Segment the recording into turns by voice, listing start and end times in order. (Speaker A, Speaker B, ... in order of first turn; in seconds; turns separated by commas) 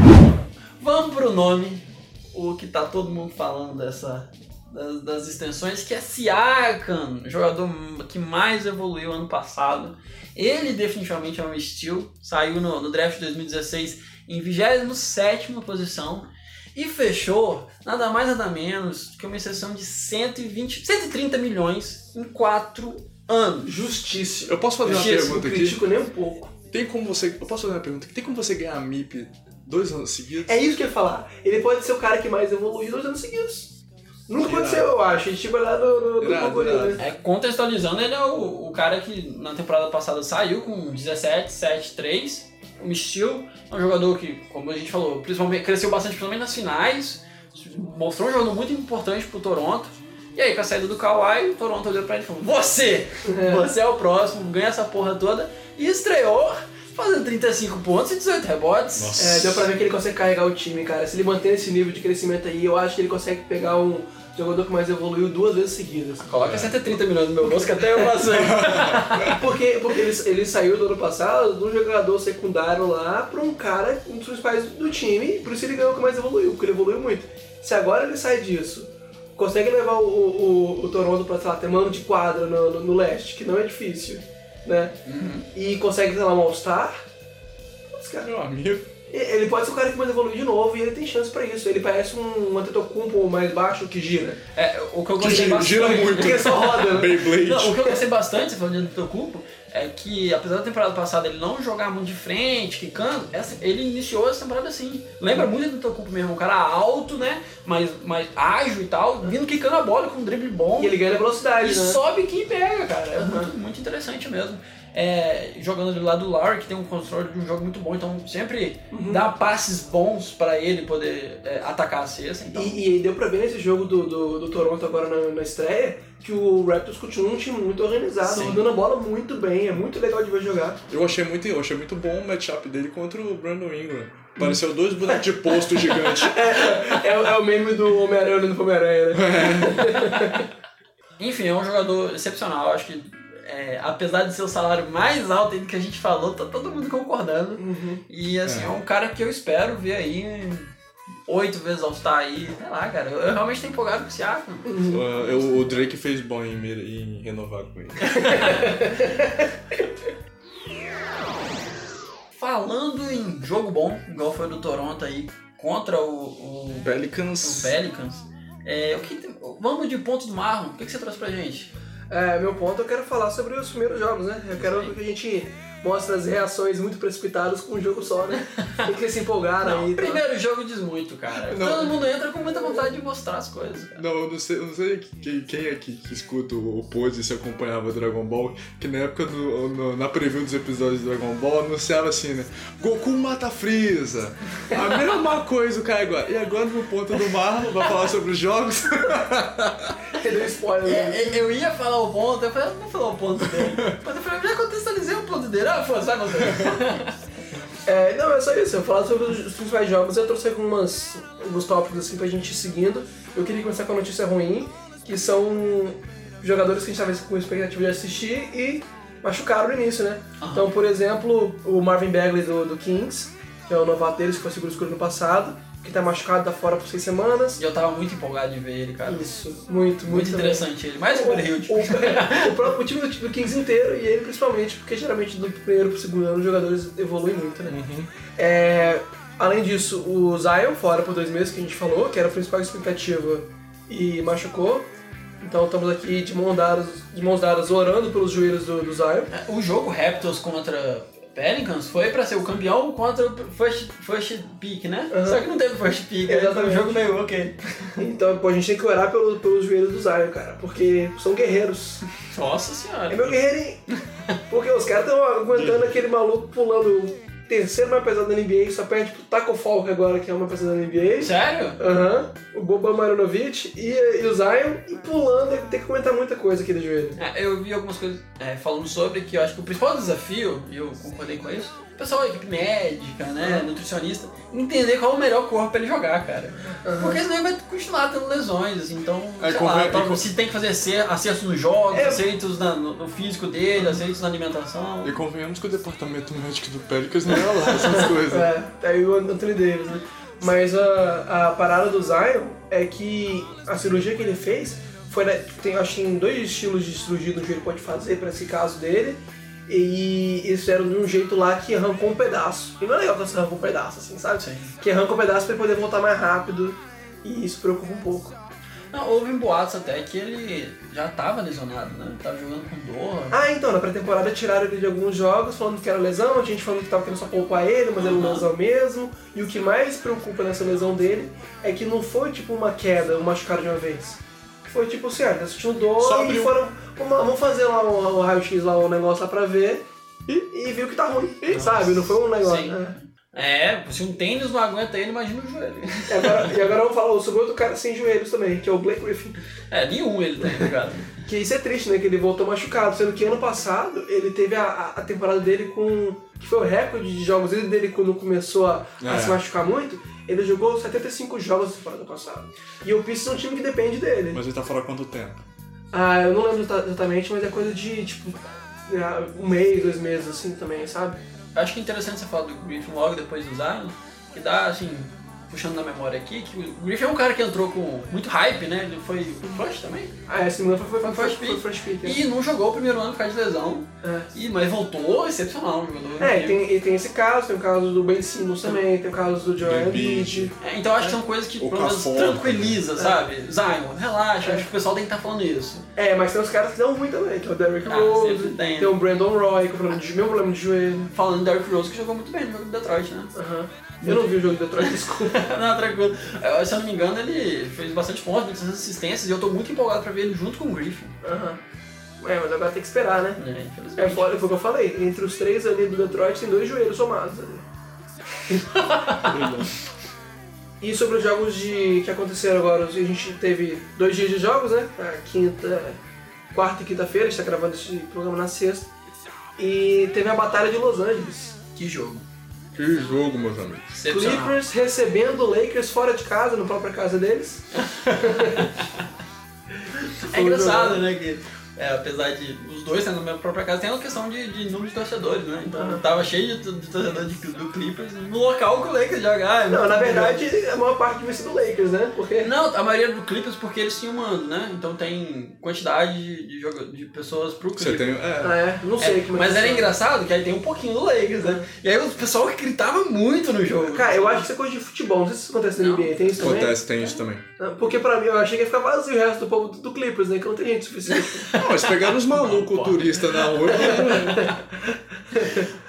Speaker A: 0.8-23.7, Speaker B: 23.6-26.6, Speaker C: 24.4-25.8, Speaker A: 24.9-25.2, Speaker C: 26.7-30.6, Speaker B: 30.5-33.7, Speaker B: 34.3-37.0, Speaker C: 34.4-34.9, Speaker C: 36.2-37.0, Speaker A: 37.0-59.2, Speaker B: 53.3-53.7, Speaker C: 59.0-59.7, Speaker B: 59.2-66.3, Speaker A: 66.2-69.4, Speaker C: 66.4-66.8, Speaker B: 67.4-68.1, Speaker C: 68.3-69.4, Speaker B: 69.2-85.0, Speaker A: 85.1-85.5, Speaker B: 85.5-87.0, Speaker B: 87.9-88.3, Speaker C: 88.2-88.9, Speaker B: 89.1-94.4, Speaker A: 94.5-111.0, Speaker C: 95.2-97.8, Speaker B: 95.4-97.2, Speaker B: 110.8-112.0, Speaker A: 111.6-122.8, Speaker B: 113.2-113.5, Speaker B: 118.9-119.3, Speaker B: 122.5-130.8, Speaker A: 128.2-128.6, Speaker C: 130.9-136.7, Speaker B: 135.8-140.5, Speaker C: 139.1-140.1, Speaker A: 141.2-150.7, Speaker B: 147.6-148.0, Speaker C: 148.4-148.8, Speaker A: 151.3-155.8, Speaker B: 154.7-155.0, Speaker C: 154.9-158.3, Speaker A: 158.1-158.8, Speaker B: 158.2-159.4, Speaker A: 162.3-166.9, Speaker C: 166.8-167.8, Speaker A: 167.4-171.7, Speaker B: 172.1-180.2, Speaker A: 174.6-174.9, Speaker A: 179.6-184.0, Speaker C: 181.5-181.9, Speaker B: 182.5-182.8, Speaker C: 184.0-199.9, Speaker B: 200.2-201.4, Speaker A: 200.9-207.1, Speaker B: 207.9-227.6, Speaker A: 220.4-220.7, Speaker A: 227.6-229.3, Speaker B: 229.1-237.8, Speaker A: 230.1-232.7, Speaker C: 237.7-238.1, Speaker B: 238.4-244.9, Speaker B: 245.4-249.3, Speaker A: 249.3-257.6, Speaker B: 255.1-255.4, Speaker B: 256.3-257.1, Speaker B: 258.0-262.0, Speaker A: 262.2-263.4, Speaker B: 263.1-263.8, Speaker B: 264.5-277.2, Speaker C: 265.5-266.0, Speaker A: 271.2-271.8, Speaker A: 277.2-295.2, Speaker B: 283.4-283.7, Speaker B: 286.8-287.2, Speaker C: 289.4-290.2, Speaker B: 291.9-292.2, Speaker C: 295.0-298.5, Speaker B: 297.8-318.4, Speaker A: 314.4-314.7, Speaker A: 318.9-323.4, Speaker B: 323.3-343.0, Speaker A: 328.0-328.5, Speaker C: 336.0-336.6, Speaker A: 341.5-346.5, Speaker B: 346.1-349.4, Speaker A: 349.7-351.1, Speaker B: 351.2-364.4, Speaker C: 359.0-359.4, Speaker C: 364.3-365.4, Speaker B: 365.9-371.2, Speaker A: 371.6-380.1, Speaker B: 380.3-382.2, Speaker A: 381.0-386.6, Speaker B: 384.0-384.3, Speaker B: 386.2-391.2, Speaker C: 389.6-390.5, Speaker A: 390.6-395.9, Speaker C: 391.6-392.8, Speaker B: 396.0-401.1, Speaker A: 397.9-398.9, Speaker A: 401.1-403.3, Speaker B: 403.4-405.5, Speaker A: 404.0-411.1, Speaker B: 411.2-411.6, Speaker B: 412.2-413.4, Speaker A: 413.4-414.3, Speaker B: 414.0-417.6, Speaker A: 418.8-419.3, Speaker C: 419.2-419.7, Speaker B: 420.8-426.0, Speaker B: 426.5-428.9, Speaker B: 429.6-431.6, Speaker A: 431.8-432.2, Speaker C: 432.8-433.9, Speaker A: 433.9-434.6, Speaker B: 434.1-438.7, Speaker A: 437.8-439.0, Speaker A: 440.2-450.5, Speaker B: 440.2-441.0, Speaker B: 445.8-446.0, Speaker B: 449.7-452.5, Speaker A: 452.4-458.2, Speaker C: 457.8-458.6, Speaker B: 458.4-459.9, Speaker A: 459.0-464.5, Speaker B: 461.4-461.7, Speaker B: 463.8-466.8, Speaker A: 465.8-466.1, Speaker C: 466.4-467.4, Speaker B: 467.6-471.5, Speaker A: 471.1-474.6, Speaker C: 471.6-474.5, Speaker B: 473.7-474.6, Speaker B: 475.3-475.7